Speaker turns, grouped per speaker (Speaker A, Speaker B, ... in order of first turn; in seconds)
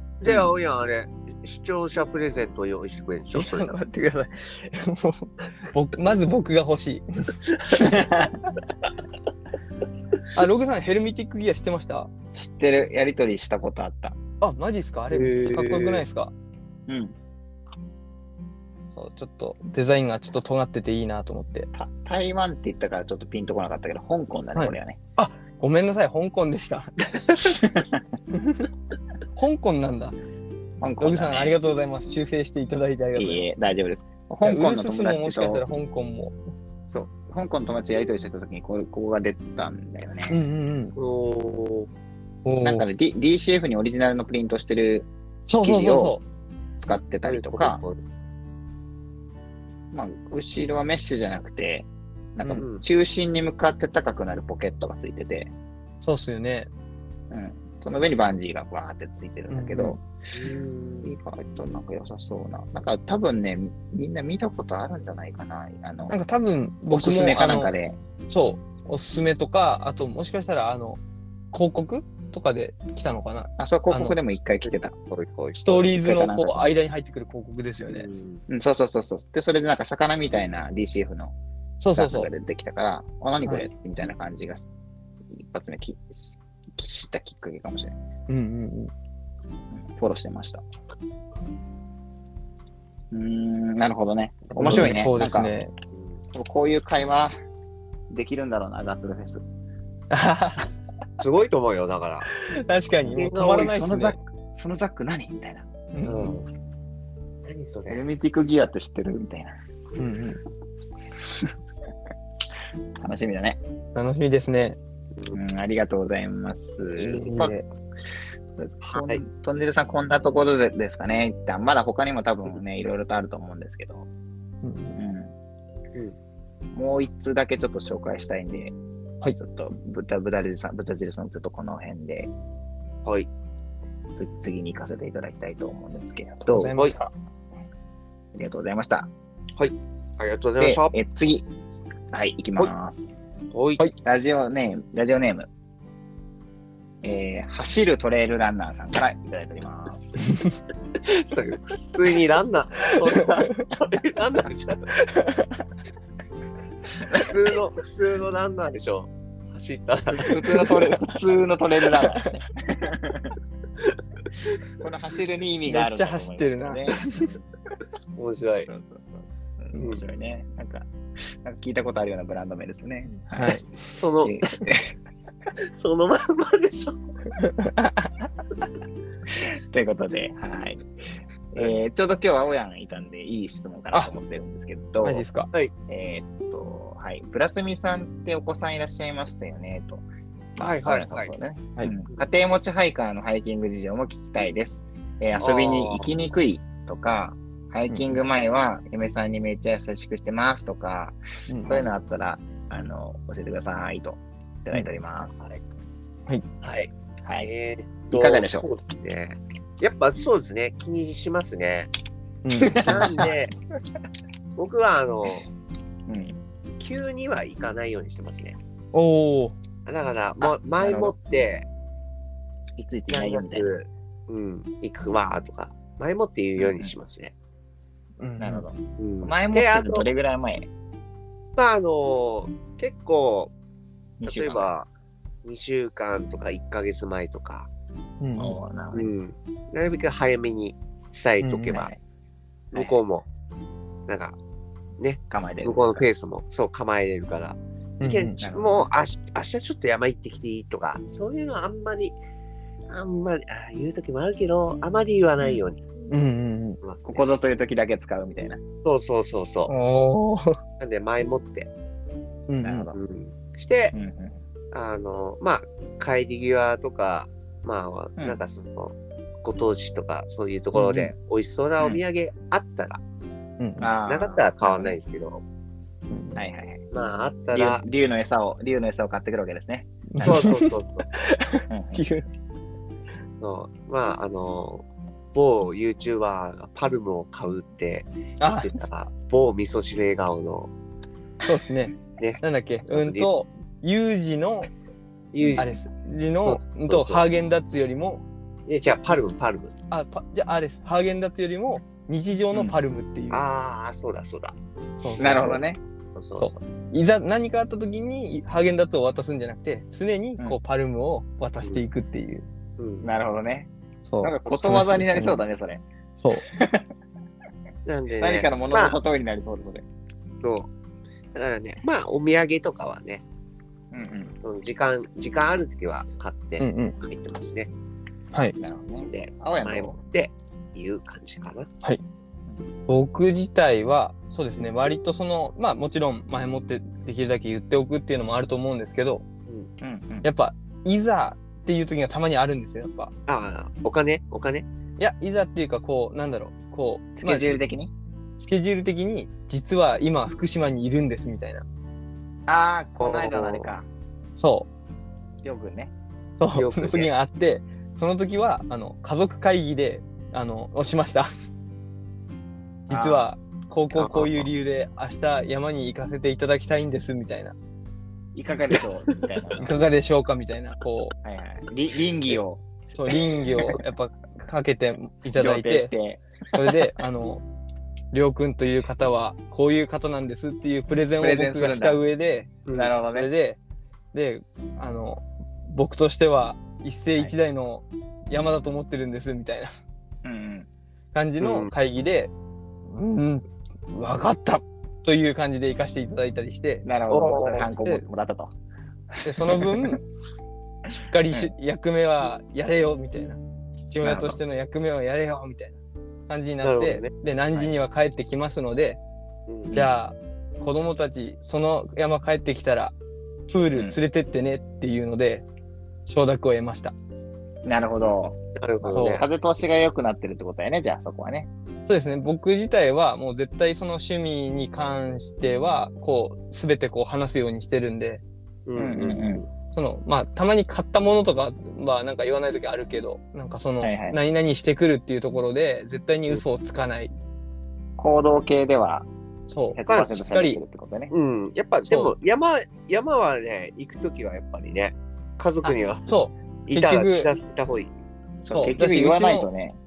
Speaker A: 0.2-3.8, 15.1-16.0, 41.0-41.9, 47.2-48.0, 52.5-52.8, 60.3-61.1, 74.6-75.7, 77.9-78.4, 101.2-102.3, 103.0-103.7, 106.0-106.4, 107.4-108.0, 118.8-119.2, 139.6-140.9, 143.5-143.8, 151.0-154.9, 157.1-160.5, 168.2-168.7, 169.8-170.0, 174.0-174.3, 175.7-177.0, 190.6-191.3, 195.4-196.1, 206.6-211.9, 212.7-213.5, 214.6-215.4, 216.8-218.6, 219.8-221.7, 223.1-227.3, 229.0-230.1, 231.6-233.5, 234.2-234.9, 235.4-237.7, 238.9-241.9, 242.7-243.2, 244.1-244.4, 245.0-252.2, 252.9-255.8, 256.8-257.2, 258.8-259.7, 260.8-261.7, 262.9-263.9, 264.7-273.0, 274.1-275.4, 276.9-277.8, 280.2-281.2, 283.4-290.7, 292.2-293.3, 295.3-295.7, 296.4-297.2, 298.7-299.7, 303.3-304.6, 305.2-305.6, 306.1-306.6, 312.8-313.1, 317.9-319.0, 320.4-320.7, 321.3-323.2, 324.4-327.7, 329.0-331.7, 343.3-344.7, 353.0-353.7, 356.5-357.1, 382.6-382.9, 391.4-391.7, 397.1-397.7, 406.6-407.1, 409.5-409.7, 418.5-419.2, 428.7-429.5, 439.9-440.2, 441.1-446.1, 446.7-447.9
Speaker B: 3.3-7.9, 10.3-12.1, 14.4-16.3, 18.9-21.7, 24.6-27.6, 28.3-28.7, 29.4-30.1, 31.0-33.5, 34.4-36.3, 40.3-40.9, 42.4-42.9, 45.5-46.2, 56.0-56.7, 59.5-60.0, 66.1-67.7, 68.3-71.0, 71.5-74.2, 75.5-78.1, 81.8-82.3, 88.3-88.9, 94.6-95.7, 100.1-100.7, 102.3-104.2, 105.9-106.4, 110.0-110.4, 113.9-114.8, 117.0-117.6, 124.6-125.0, 136.4-137.1, 155.0-155.5, 160.4-160.9, 161.9-162.3, 165.7-167.4, 173.3-174.0, 177.4-178.2, 185.0-185.5, 197.9-198.2, 201.5-201.8, 212.4-213.4, 218.9-219.5, 228.2-228.6, 238.2-238.6, 241.4-241.8, 248.0-248.4, 256.1-256.8, 259.7-260.6, 262.5-262.9, 270.7-271.1, 273.6-273.9, 276.1-276.4, 280.1-282.2, 288.4-288.7, 291.4-294.7, 295.6-298.2, 299.9-303.4, 305.0-305.6, 306.4-312.4, 314.0-315.4, 316.2-316.4, 326.6-326.9, 332.9-339.2, 340.2-343.1, 345.0-347.5, 348.4-351.6, 354.4-354.7, 356.4-361.3, 362.9-367.5, 369.6-371.1, 372.9-375.9, 376.5-377.4, 378.1-383.6, 384.1-389.7, 391.1-392.3, 392.9-396.9, 399.2-400.0, 400.9-409.0, 409.7-412.9, 413.5-415.4, 416.1-416.9, 418.9-419.2, 421.9-428.2, 429.7-437.1, 439.5-440.6, 441.9-442.1, 445.6-447.3, 448.5-449.5
Speaker C: 7.7-8.4, 12.3-14.2, 16.9-17.1, 21.7-25.0, 27.4-28.0, 30.8-31.5, 33.1-35.6, 36.9-40.4, 42.6-45.1, 45.6-46.1, 46.8-47.8, 49.9-55.5, 57.3-60.0, 61.0-66.2, 66.9-68.0, 73.6-74.9, 75.7-76.6, 78.5-81.3, 81.9-84.6, 85.3-87.9, 89.7-90.6, 93.1-95.5, 96.3-97.3, 98.1-99.4, 103.5-105.7, 107.9-109.5, 113.0-113.6, 115.3-117.5, 118.6-124.1, 125.0-125.3, 126.7-128.7, 129.3-132.3, 134.2-136.7, 138.3-139.1, 140.6-141.4, 142.1-143.0, 144.0-145.5, 147.0-150.1, 160.1-163.3, 164.8-167.1, 168.7-170.9, 171.4-173.6, 174.2-174.9, 179.3-180.8, 181.5-185.2, 185.9-190.0, 190.6-205.4, 208.1-208.7, 212.6-213.3, 216.1-216.4, 220.4-221.1, 222.8-223.7, 226.6-226.9, 228.4-230.7, 234.2-234.7, 238.4-239.1, 241.7-242.0, 245.3-246.1, 248.4-248.9, 257.0-258.6, 262.6-263.0, 263.9-264.4, 273.8-275.0, 276.3-276.8, 277.5-280.5, 281.7-282.0, 295.4-295.8, 305.2-305.8, 313.0-313.7, 314.2-315.8, 316.5-316.9, 318.2-319.8, 323.9-324.3, 328.4-330.0, 339.8-340.3, 347.2-347.9, 352.5-353.9, 355.4-355.9, 362.9-363.3, 364.0-364.5, 368.3-369.8, 371.2-372.6, 375.3-376.8, 381.2-382.0, 382.7-383.3, 390.2-390.7, 396.8-398.5, 399.1-399.9, 404.0-404.4, 417.6-421.5, 428.8-429.4, 433.8-434.2, 438.0-439.1, 439.7-441.1, 448.4-449.8